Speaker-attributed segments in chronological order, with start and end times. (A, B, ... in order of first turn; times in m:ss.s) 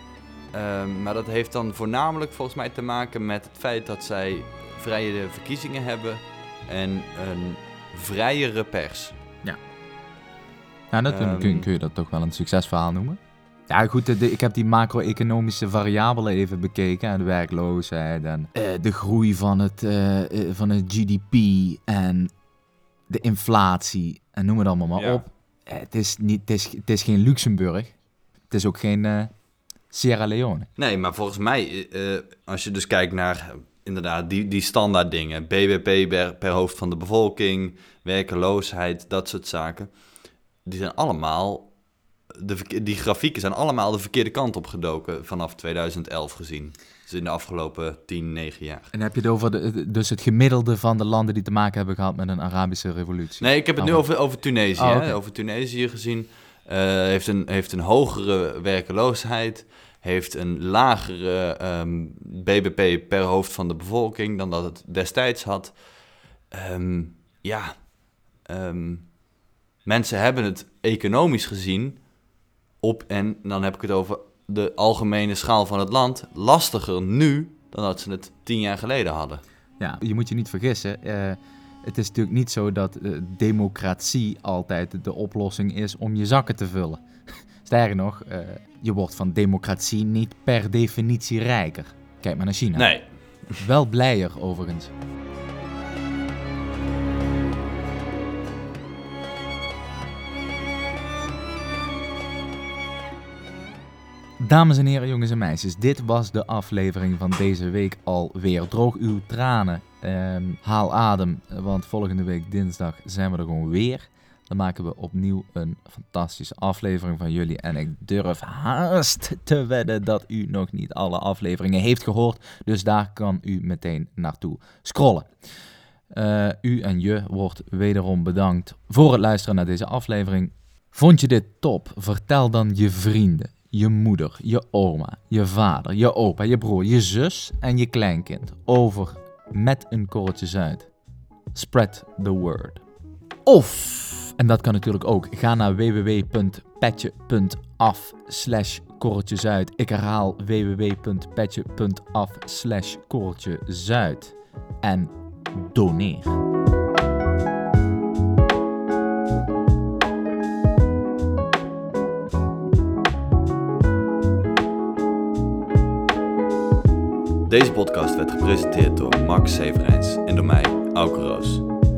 0:00.5-0:09.1 A
0:10.9-0:22.3 B
0:11.1-0:11.7 A
0:23.1-0:27.9 B
0:25.0-0:25.2 A
0:28.5-0:29.3 B
0:29.9-0:30.7 B
0:30.8-0:39.9 A
0:40.6-0:41.7 A
0:42.3-0:48.9 A
0:48.9-0:54.1 B
0:53.4-1:05.7 A
0:54.7-0:55.2 B
1:06.5-1:07.9 A
1:08.5-1:09.1 A
1:09.8-1:12.0 A
1:12.8-1:19.4 A
1:19.8-1:27.0 B
1:27.6-1:32.9 B
1:32.7-1:33.6 A
1:33.6-1:34.9 B
1:44.4-2:05.3 B
2:06.1-2:20.9 B
2:21.5-2:22.8 B
2:23.4-2:36.4 B
2:47.5-2:51.7 A